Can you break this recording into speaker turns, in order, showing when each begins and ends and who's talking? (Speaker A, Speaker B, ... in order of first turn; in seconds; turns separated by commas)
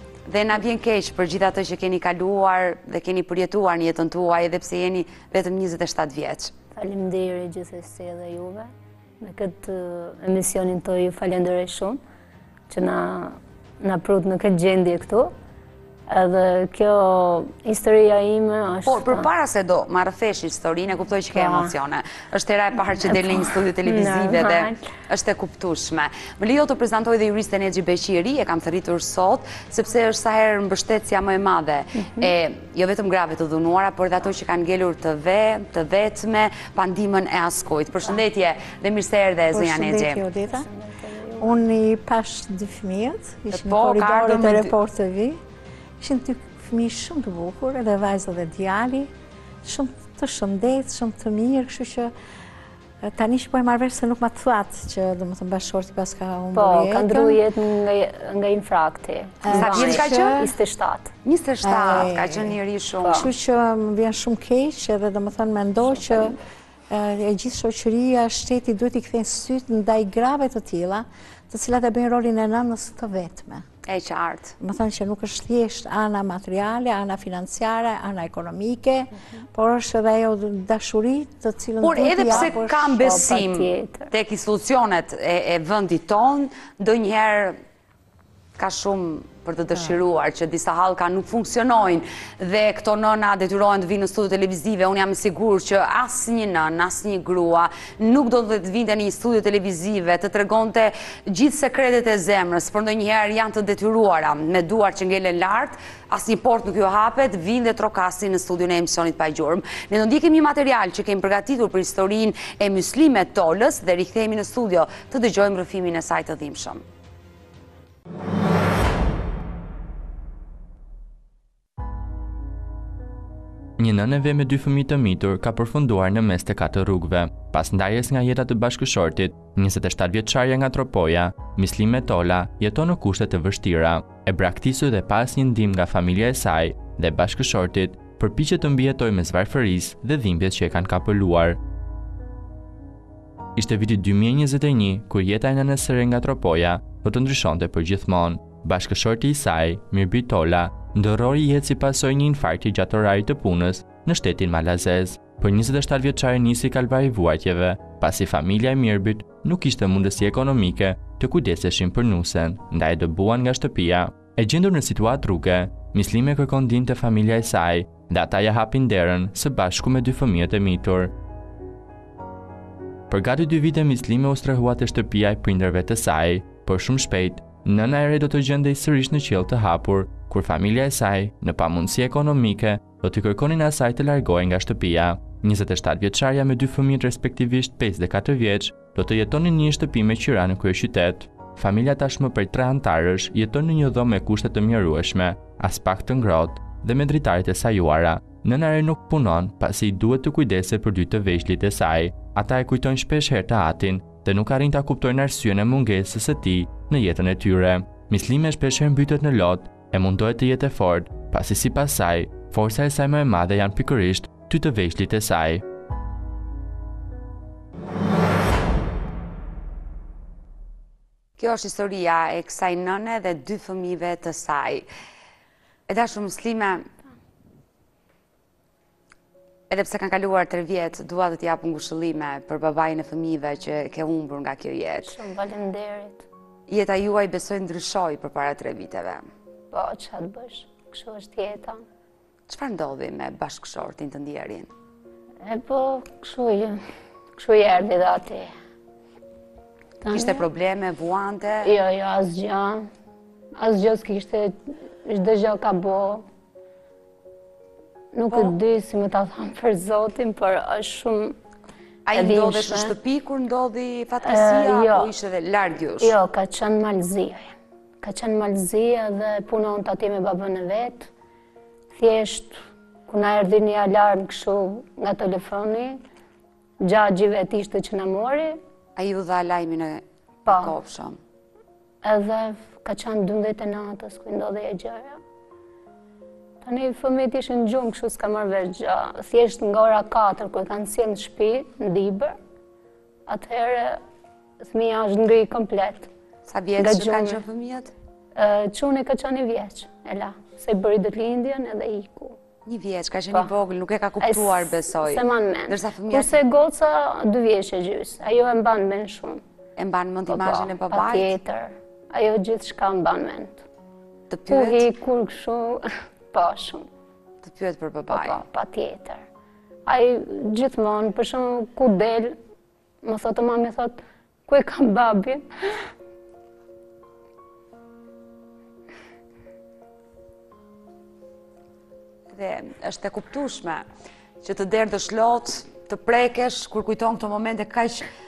Speaker A: 0.3-6.5, Speaker B: 6.8-12.0, Speaker B: 12.7-15.3, Speaker B: 16.1-19.3, Speaker A: 18.9-40.2, Speaker B: 21.3-21.7, Speaker B: 23.0-24.8, Speaker B: 32.0-32.3, Speaker C: 39.5-40.7, Speaker B: 40.4-41.6, Speaker C: 41.4-45.4, Speaker A: 43.5-44.7, Speaker C: 46.0-49.1, Speaker C: 49.6-52.1, Speaker C: 53.0-57.4, Speaker B: 56.5-61.1, Speaker C: 59.4-60.5, Speaker A: 59.5-60.4, Speaker A: 61.2-63.3, Speaker C: 61.6-62.5, Speaker C: 63.1-66.4, Speaker B: 65.9-66.3, Speaker C: 66.9-73.7, Speaker A: 73.9-74.5, Speaker C: 74.6-83.1, Speaker A: 81.8-87.6, Speaker B: 82.3-84.1, Speaker A: 88.6-116.8, Speaker D: 123.8-141.6, Speaker D: 143.6-171.1, Speaker D: 173.1-215.6, Speaker A: 221.4-224.9, Speaker A: 225.9-226.9, Speaker A: 229.7-235.1, Speaker B: 235.1-236.2, Speaker A: 236.7-239.2, Speaker B: 239.7-241.8, Speaker A: 242.5-244.7, Speaker B: 245.4-246.8, Speaker B: 247.4-248.5, Speaker B: 250.0-250.4, Speaker A: 250.1-251.7, Speaker B: 251.6-252.8, Speaker B: 253.6-256.2, Speaker B: 258.1-261.4, Speaker A: 262.1-266.1, Speaker B: 262.1-262.9, Speaker B: 264.2-265.1, Speaker B: 266.0-271.1, Speaker B: 272.0-276.0, Speaker B: 276.8-278.6, Speaker A: 279.0-281.2, Speaker B: 280.5-280.7, Speaker B: 282.0-285.2, Speaker B: 286.6-292.4, Speaker B: 293.3-294.0, Speaker B: 294.6-296.1, Speaker A: 296.5-297.9, Speaker B: 296.8-297.4, Speaker B: 298.4-302.4, Speaker A: 302.7-306.4, Speaker B: 304.2-309.4, Speaker A: 309.8-311.4, Speaker B: 310.3-313.6, Speaker A: 314.3-314.9, Speaker B: 314.5-316.9, Speaker A: 317.4-318.4, Speaker B: 318.1-319.2, Speaker B: 319.9-322.4, Speaker B: 323.1-325.5, Speaker A: 332.3-333.8, Speaker A: 334.4-338.1